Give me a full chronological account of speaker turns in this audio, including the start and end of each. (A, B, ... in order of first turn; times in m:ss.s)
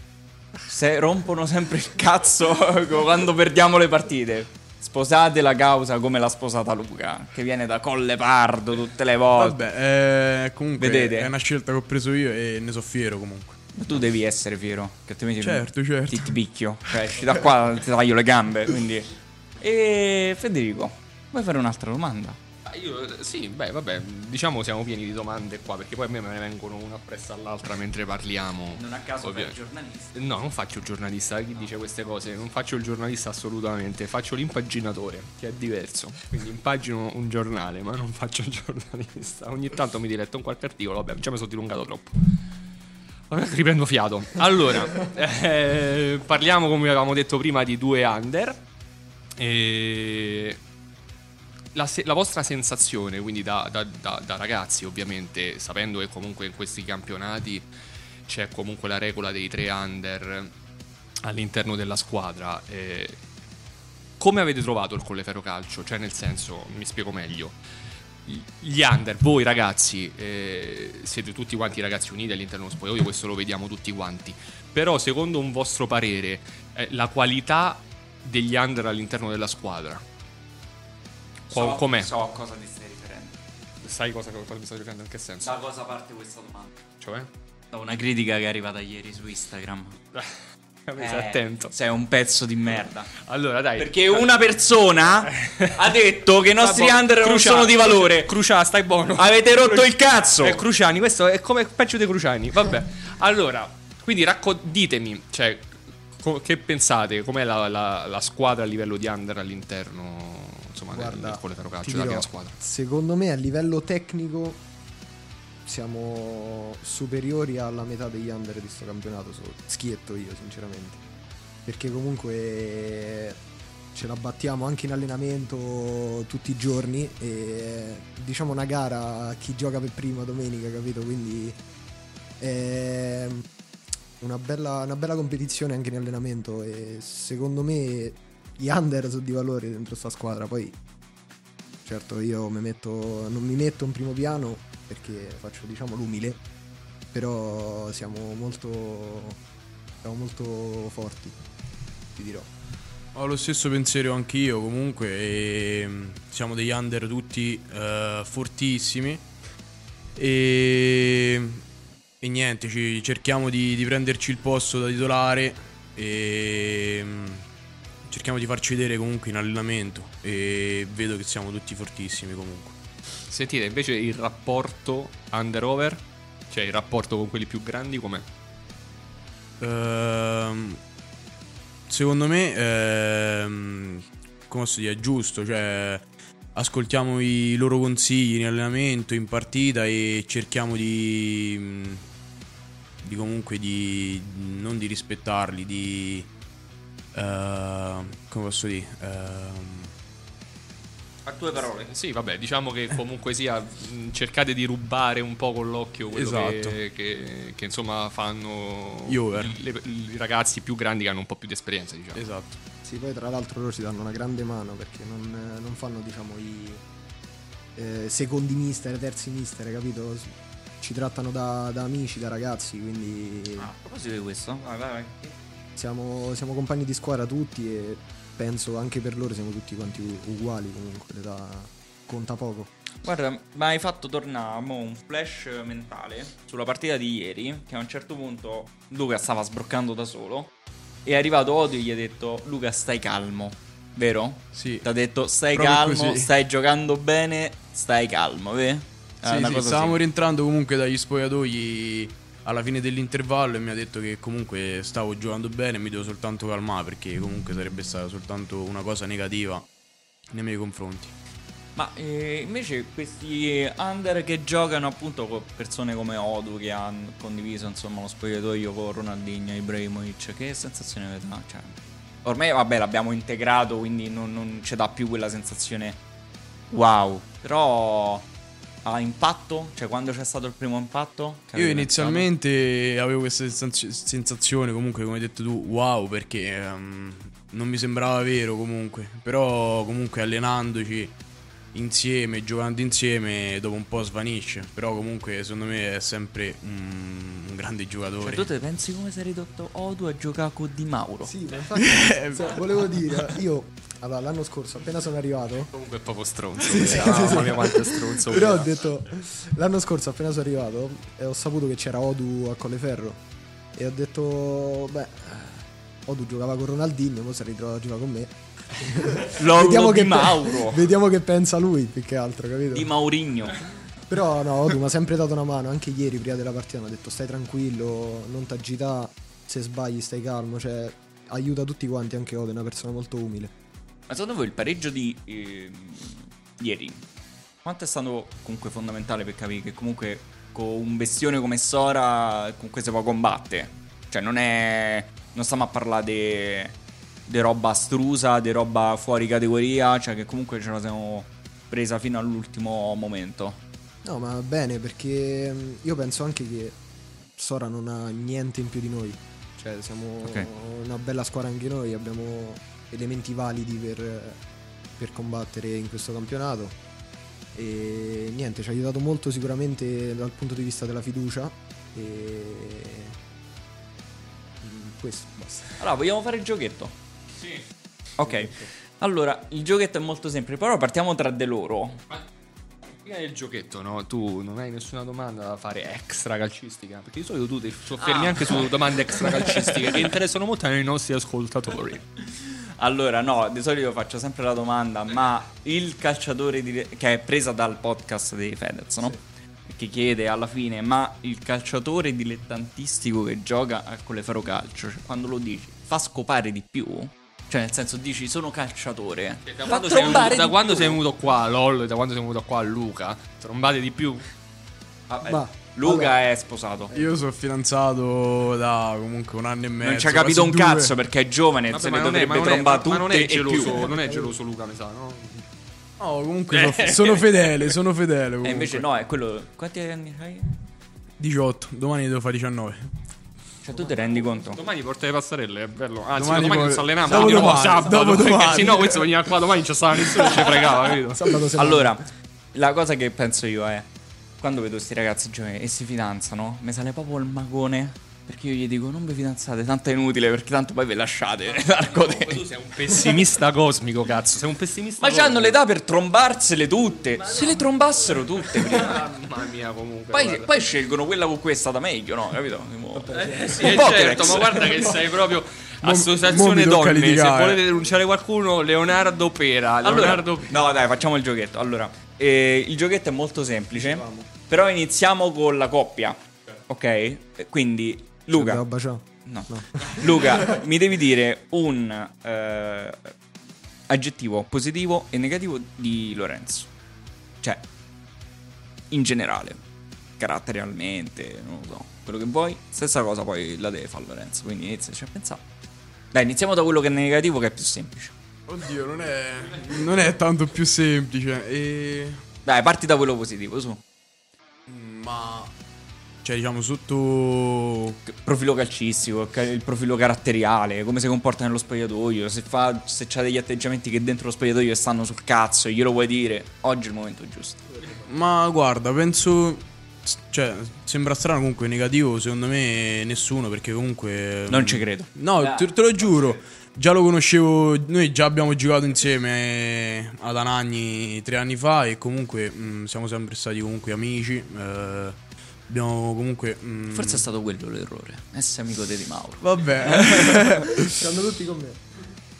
0:00.7-0:09.6 A
0:09.4-0:13.6 B
0:10.8-0:11.3 A
0:13.7-0:22.4 A
0:15.4-0:16.3 B
0:22.6-0:29.6 C
0:28.7-0:30.2 A
0:30.1-0:42.4 C
0:43.3-0:48.6 C
0:49.4-0:50.6 C
0:51.7-0:57.6 C
0:58.3-1:00.5 C
1:01.2-1:03.2 C
1:04.2-1:07.6 C
1:08.2-1:20.0 C
1:21.5-1:22.1 C
1:21.5-1:23.4 A
1:23.8-1:25.5 C
1:25.4-1:26.8 A
1:27.0-1:27.3 C
1:27.7-1:30.0 A
1:30.9-1:31.7 C
1:31.0-1:33.1 A
1:33.2-1:34.3 C
1:33.8-1:38.3 A
1:35.3-1:35.9 C
1:36.5-1:39.9 C
1:39.2-1:40.6 A
1:40.4-1:52.6 C
1:50.9-1:54.6 D
1:55.6-2:01.0 D
2:01.6-2:03.4 D
2:03.9-2:11.6 D
2:12.4-2:13.5 D
2:14.2-2:20.8 D
2:21.8-2:26.4 D
2:27.1-2:29.4 D
2:30.0-2:31.4 D
2:32.1-2:32.5 D
2:33.1-2:39.2 B
2:40.2-2:41.6 B
2:42.2-2:47.4 B
2:48.1-2:52.7 B
2:53.3-2:58.3 C
2:59.6-3:00.8 B
3:01.9-3:12.0 B
3:13.0-3:16.3 B
3:17.1-3:19.9 B
3:21.2-3:21.9 A
3:21.8-3:32.2 C
3:26.1-3:26.8 B
3:29.0-3:29.6 B
3:32.1-3:32.6 B
3:32.8-3:36.8 D
3:37.8-3:43.7 D
3:43.6-3:45.3 A
3:45.8-3:52.7 D
3:53.0-4:00.5 A
4:01.0-4:10.0 A
4:04.5-4:04.9 B
4:05.5-4:06.3 B
4:09.2-4:19.6 B
4:20.3-4:21.1 B
4:21.8-4:36.0 A
4:36.7-4:38.2 A
4:38.8-4:42.3 A
4:41.5-4:51.1 B
4:51.7-4:58.5 B
4:58.2-5:01.3 A
5:01.2-5:05.7 D
5:01.8-5:02.5 B
5:05.7-5:08.7 C
5:06.6-5:13.2 D
5:13.7-5:22.9 D
5:19.3-5:20.9 A
5:22.7-5:23.6 A
5:24.1-5:33.5 D
5:34.1-5:37.0 A
5:37.6-5:46.8 A
5:47.3-5:53.6 A
5:54.0-5:56.8 D
5:57.4-6:04.4 D
6:05.0-6:06.8 D
6:07.5-6:13.2 D
6:14.6-6:15.8 D
6:15.8-6:16.9 A
6:18.2-6:22.0 A
6:18.2-6:18.7 D
6:23.0-6:32.0 C
6:28.0-6:30.0 A
6:32.8-6:51.0 A
6:49.4-6:54.2 C
6:55.1-6:56.9 A
6:55.2-6:56.1 D
6:56.9-6:57.2 D
6:56.9-7:00.9 B
6:59.8-7:03.9 A
7:01.7-7:05.4 C
7:03.8-7:04.3 D
7:06.0-7:08.8 B
7:06.5-7:07.7 C
7:08.4-7:10.5 A
7:11.2-7:12.8 B
7:13.6-7:14.6 A
7:14.4-7:21.4 C
7:16.1-7:19.1 B
7:21.1-7:22.0 D
7:21.6-7:23.9 A
7:24.4-7:32.4 A
7:31.6-7:35.6 C
7:35.0-7:39.0 A
7:38.5-7:40.5 C
7:40.1-7:44.8 A
7:42.9-7:43.9 D
7:43.1-7:50.6 C
7:45.8-7:47.6 B
7:49.8-7:58.6 A
7:53.8-7:54.3 D
7:58.3-8:00.4 D
7:59.2-8:03.1 A
8:03.9-8:06.7 A
8:08.9-8:09.6 A
8:10.2-8:15.4 A
8:16.1-8:18.1 A
8:18.5-8:22.2 B
8:22.4-8:23.8 A
8:24.7-8:25.5 B
8:26.2-8:28.0 B
8:28.0-8:37.8 A
8:38.0-8:57.2 B
8:44.5-8:46.4 A
8:56.9-9:00.5 A
8:59.4-9:01.0 B
9:00.8-9:01.8 D